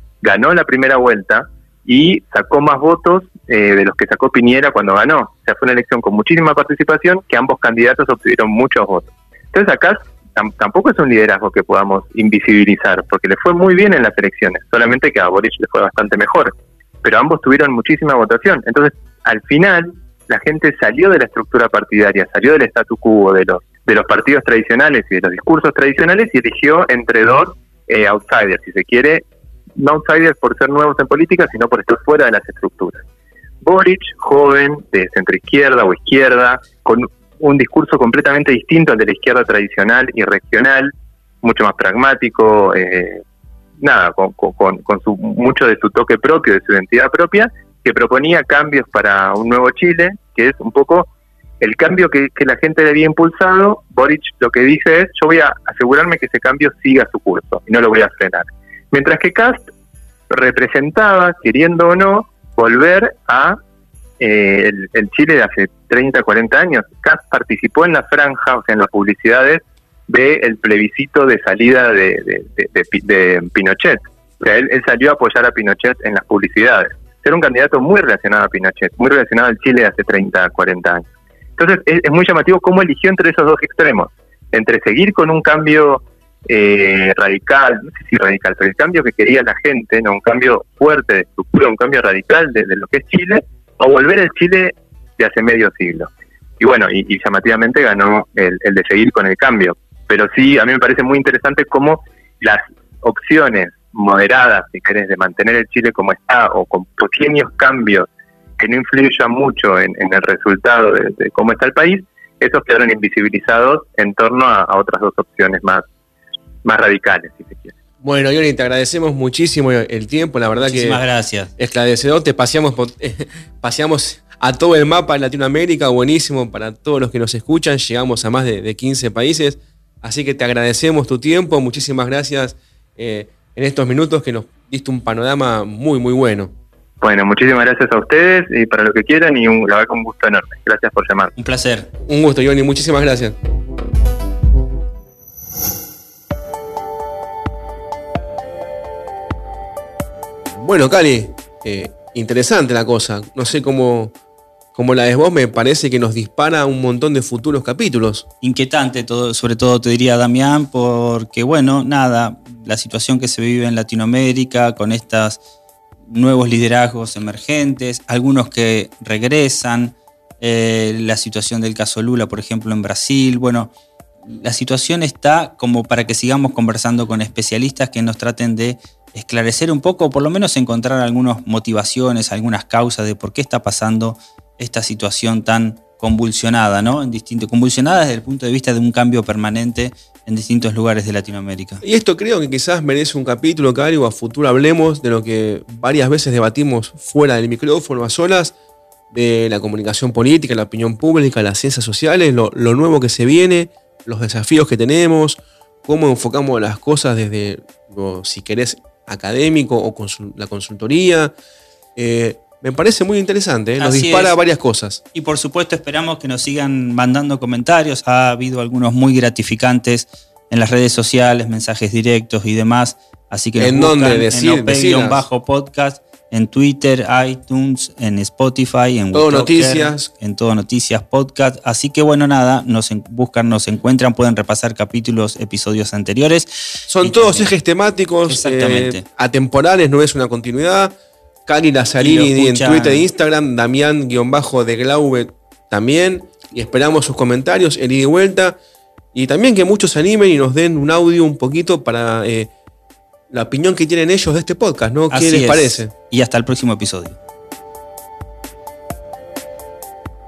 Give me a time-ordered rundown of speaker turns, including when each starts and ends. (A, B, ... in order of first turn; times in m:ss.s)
0:00.2-0:29.2 A
0:29.8-0:33.0 A
0:33.6-0:40.9 A
0:41.4-0:43.2 A
0:43.8-0:51.1 A
0:51.6-0:59.7 A
1:00.3-1:03.6 A
1:04.2-1:55.8 A
1:56.6-1:57.7 A
1:58.0-2:01.0 B
2:00.6-2:01.5 C
2:01.6-2:16.5 B
2:17.0-2:21.3 A
2:21.4-2:21.9 C
2:22.0-2:23.3 B
2:30.5-2:34.1 B
2:34.7-2:38.2 B
2:38.4-2:45.4 C
2:46.1-2:53.7 C
2:54.3-3:11.8 C
3:11.8-3:18.5 B
3:19.1-3:31.3 B
3:32.0-3:35.0 B
3:33.8-3:34.4 C
3:35.1-3:57.5 C
3:43.6-3:45.2 B
3:49.1-3:50.1 B
3:56.9-4:00.9 B
3:58.3-3:59.0 C
4:01.5-4:08.6 B
4:02.0-4:03.1 C
4:09.1-4:12.5 B
4:13.3-4:15.9 B
4:15.1-4:17.2 C